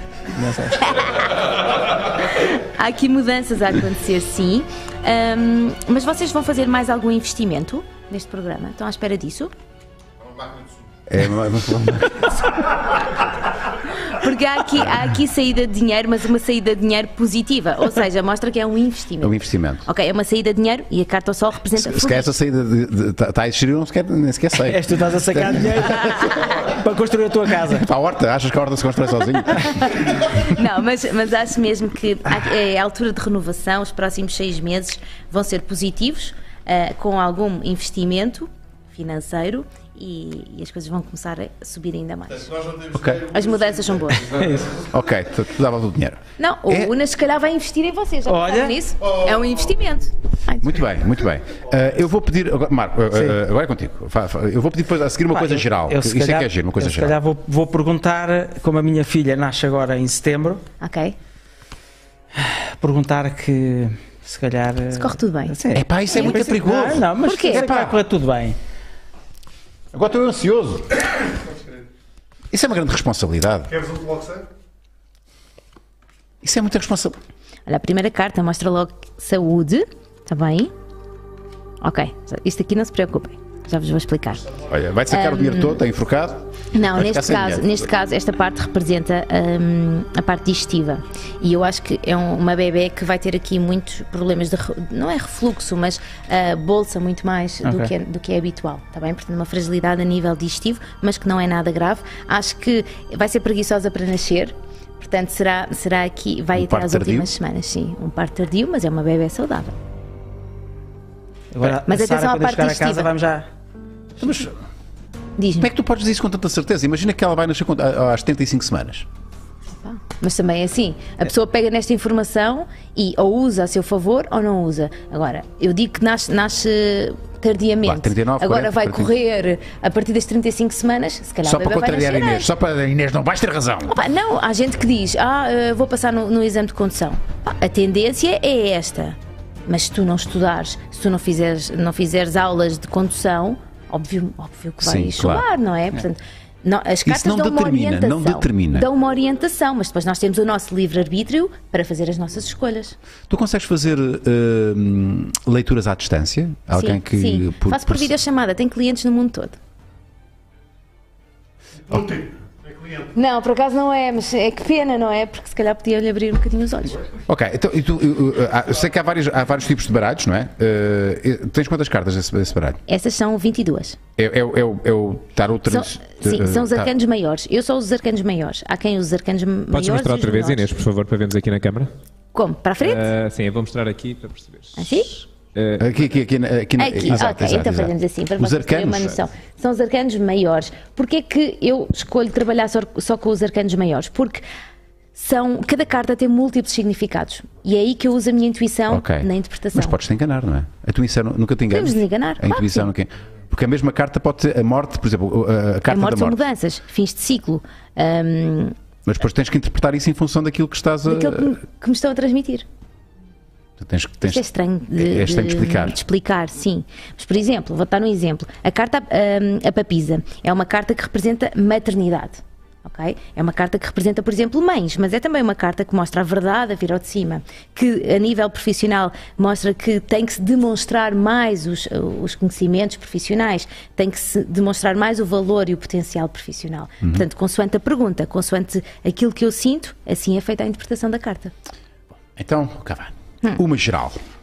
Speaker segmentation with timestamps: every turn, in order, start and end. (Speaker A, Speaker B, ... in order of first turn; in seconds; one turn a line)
Speaker A: 0.3-1.0
Speaker B: 0.8-1.3
Speaker B: 2.2-9.5
Speaker C: 11.1-12.8
Speaker B: 13.9-22.3
Speaker C: 19.2-19.8
Speaker C: 21.8-26.4
Speaker A: 24.6-27.9
Speaker C: 27.7-30.0
Speaker B: 29.6-42.5
Speaker D: 42.3-44.9
Speaker C: 42.9-43.2
Speaker B: 43.3-44.4
Speaker A: 44.3-44.7
Speaker C: 44.9-46.9
Speaker B: 46.4-50.8
Speaker A: 48.2-48.8
Speaker D: 49.0-49.8
Speaker C: 50.6-57.1
Speaker A: 55.3-60.6
Speaker B: 60.8-61.1
Speaker A: 62.4-68.6
Speaker B: 64.9-65.5
Speaker C: 65.7-68.0
Speaker B: 67.2-67.6
Speaker C: 69.9-70.9
Speaker D: 71.5-71.7
Speaker C: 72.5-73.7
Speaker D: 73.7-74.5
Speaker C: 76.4-77.2
Speaker B: 77.7-80.7
Speaker B: 81.8-84.5
Speaker C: 84.7-87.8
Speaker B: 85.1-85.8
Speaker B: 86.7-109.7
Speaker A: 97.6-97.9
Speaker C: 106.5-107.3
Speaker A: 111.5-113.5
Speaker B: 111.8-113.1
Speaker C: 114.2-114.5
Speaker B: 115.4-115.7
Speaker C: 115.6-119.1
Speaker B: 119.8-132.5
Speaker C: 127.8-129.1
Speaker C: 131.4-134.0
Speaker B: 133.9-152.9
Speaker C: 144.8-145.4
Speaker C: 147.0-148.9
Speaker C: 153.3-158.1
Speaker B: 156.7-159.6
Speaker D: 161.8-163.1
Speaker B: 163.1-167.1
Speaker C: 167.3-172.8
Speaker B: 172.9-174.0
Speaker C: 174.2-176.9
Speaker B: 175.7-180.7
Speaker E: 179.7-181.9
Speaker B: 182.3-183.1
Speaker E: 182.8-186.0
Speaker B: 184.8-185.2
Speaker C: 185.8-189.2
Speaker B: 186.8-194.4
Speaker B: 195.1-200.0
Speaker C: 198.9-206.4
Speaker B: 201.7-202.9
Speaker B: 205.9-208.7
Speaker C: 209.1-211.5
Speaker B: 211.1-212.7
Speaker C: 213.8-216.0
Speaker B: 214.2-241.5
Speaker C: 242.3-244.2